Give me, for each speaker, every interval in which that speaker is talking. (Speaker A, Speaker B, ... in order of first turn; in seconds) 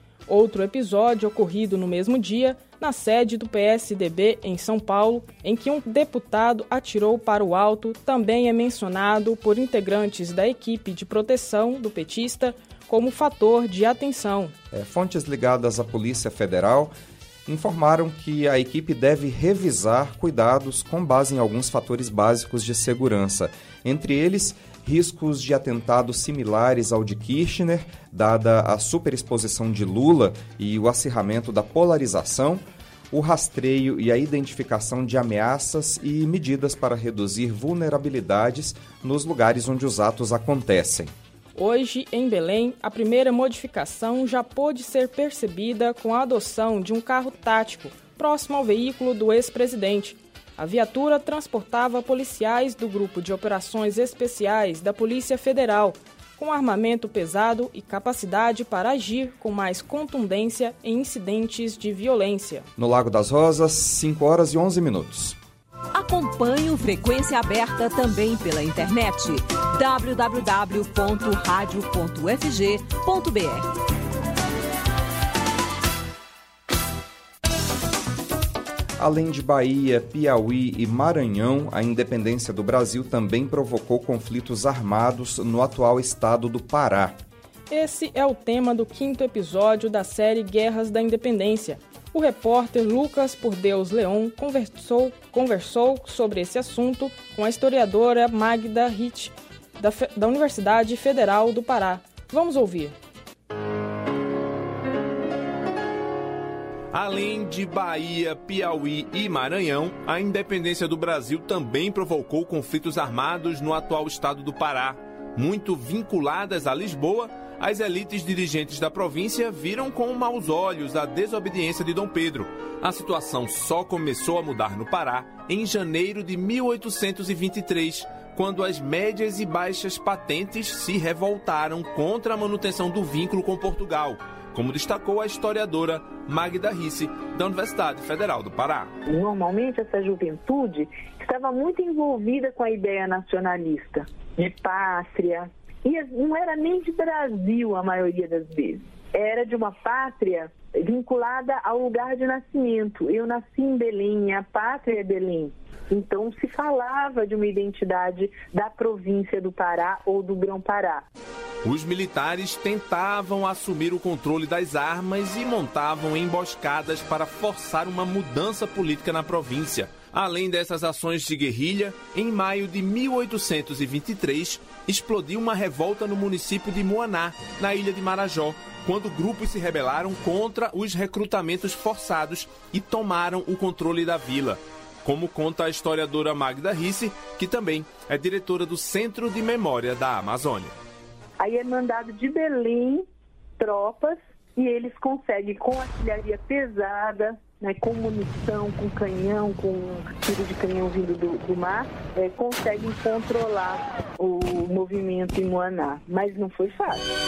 Speaker A: 0.3-14.5, 41.5-62.6, 87.7-102.9
Speaker B: 14.7-16.9, 17.4-41.1, 62.8-65.4, 79.0-87.2
Speaker C: 65.9-73.7
Speaker D: 106.9-138.9, 161.6-190.8
Speaker E: 139.1-161.1, 191.4-193.1, 193.6-207.1